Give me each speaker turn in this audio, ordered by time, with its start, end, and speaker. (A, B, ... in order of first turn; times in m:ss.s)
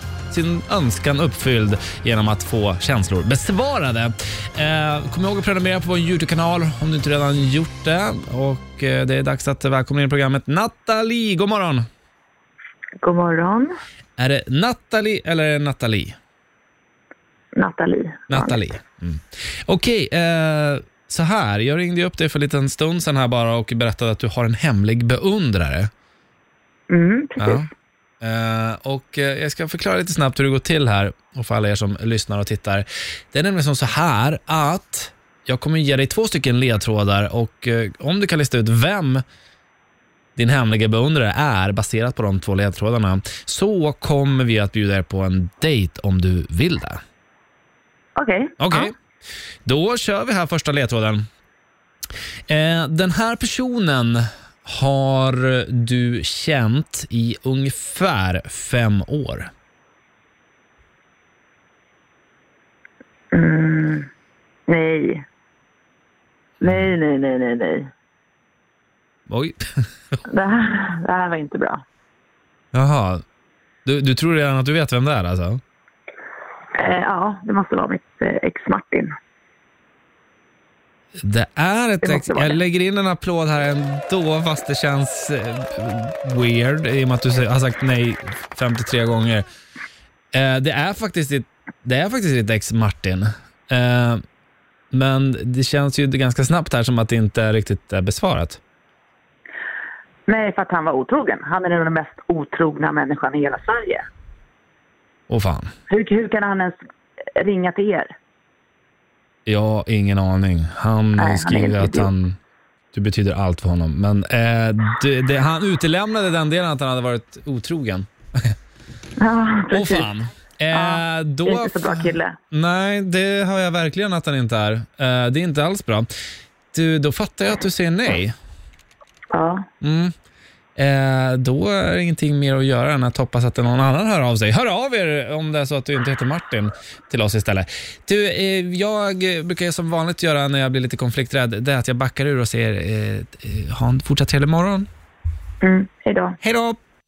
0:00.3-0:11.8 A
0:13.0-0:13.7 B
0:14.2-0:16.2 A
0:17.6-0:18.6 B
0:18.3-0:25.9 A
0:26.9-0:27.7 B
0:27.4-0:27.7 A
0:28.2-0:39.2 A
0:40.4-0:47.0 A
0:48.2-0:48.9 B
0:48.6-0:48.9 A
0:49.7-0:51.2 A
0:52.5-0:59.5 A
1:03.3-1:04.1 B
1:04.7-1:05.2 B
1:06.6-1:06.9 A
1:06.6-1:07.9 B
1:09.3-1:09.6 A
1:10.3-1:11.8 B
1:12.7-1:13.2 A
1:13.8-1:15.6 A
1:16.8-1:19.1 B
1:21.2-1:29.4 A
1:22.0-1:22.6 B
1:30.3-1:34.2 A
1:34.9-1:38.6 A
1:40.3-1:44.0 B
1:45.3-1:45.7 A
1:45.9-1:46.8 B
1:47.4-1:48.1 B
1:49.5-1:52.4 A
1:51.2-1:52.1 B
1:52.9-1:58.5 A
1:59.2-2:00.1 B
1:59.7-2:06.1 A
2:00.7-2:02.4 B
2:06.7-2:08.4 A
2:09.3-2:09.6 B
2:09.8-2:10.1 A
2:10.8-2:24.9 A
2:25.6-2:26.4 B
2:26.4-2:26.8 A